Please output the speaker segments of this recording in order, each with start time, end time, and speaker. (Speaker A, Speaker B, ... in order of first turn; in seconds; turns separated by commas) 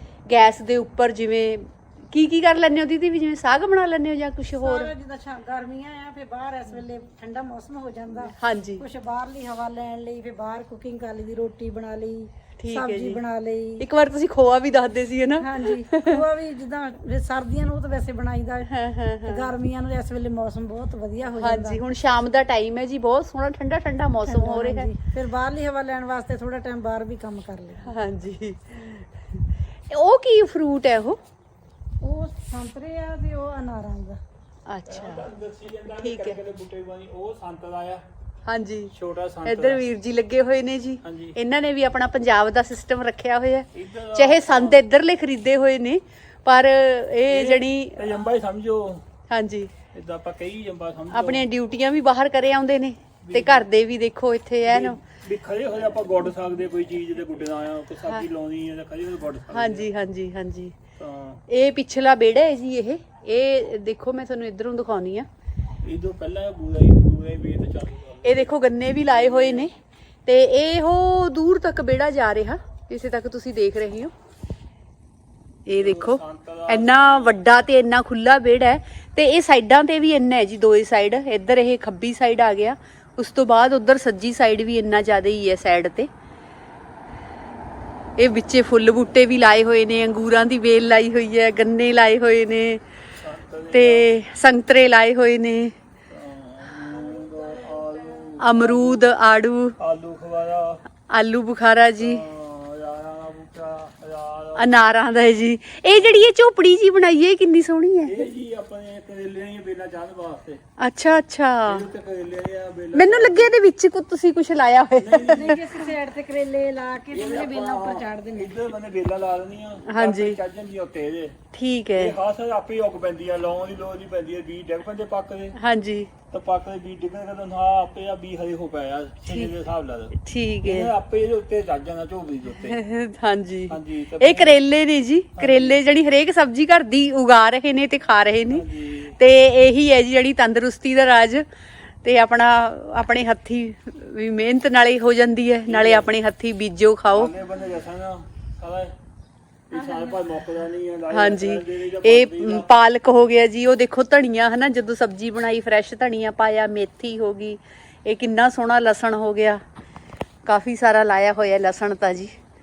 Speaker A: 0.3-4.9, Speaker B: 4.6-13.8, Speaker A: 8.3-8.8, Speaker A: 12.6-13.2, Speaker A: 13.8-16.2, Speaker B: 15.4-18.7, Speaker A: 18.7-19.5, Speaker B: 19.2-21.8, Speaker A: 21.3-24.9, Speaker B: 24.3-27.9, Speaker A: 27.9-29.1, Speaker A: 29.9-31.2, Speaker B: 32.0-34.2, Speaker A: 34.7-35.3, Speaker C: 34.9-38.0, Speaker A: 36.0-36.4, Speaker A: 38.5-38.9, Speaker C: 38.9-39.8, Speaker A: 39.5-48.1, Speaker C: 41.0-41.4, Speaker C: 43.7-44.8, Speaker C: 47.3-49.0, Speaker A: 49.3-49.7, Speaker C: 49.9-51.5, Speaker A: 51.1-55.0, Speaker C: 53.2-53.7, Speaker C: 54.7-59.9, Speaker A: 59.5-60.8, Speaker C: 61.0-61.4, Speaker A: 61.5-65.3, Speaker C: 65.8-69.7, Speaker A: 68.2-69.7, Speaker A: 70.3-74.1, Speaker A: 75.7-86.1, Speaker C: 75.8-77.6, Speaker A: 88.2-92.8, Speaker C: 93.2-94.1, Speaker A: 93.7-95.7, Speaker C: 96.1-99.1, Speaker A: 98.4-99.8, Speaker C: 99.8-100.8, Speaker A: 101.1-102.2, Speaker C: 102.0-104.7, Speaker A: 104.6-108.2, Speaker C: 108.1-110.6, Speaker A: 110.8-111.9, Speaker C: 111.7-113.5, Speaker A: 113.0-115.6, Speaker C: 115.0-115.6, Speaker B: 115.3-118.6, Speaker C: 117.1-121.4, Speaker A: 119.9-120.4, Speaker A: 121.5-122.2, Speaker C: 122.0-125.6, Speaker A: 125.5-126.1, Speaker C: 126.3-132.8, Speaker A: 129.3-129.5, Speaker A: 130.2-130.9, Speaker A: 132.6-138.7, Speaker C: 133.7-134.6, Speaker C: 135.4-135.8, Speaker C: 138.5-139.2, Speaker A: 139.2-141.4, Speaker A: 142.0-147.3, Speaker C: 145.7-146.1, Speaker C: 147.1-148.9, Speaker C: 149.7-152.7, Speaker B: 149.7-150.2, Speaker A: 151.1-159.6, Speaker A: 160.5-162.3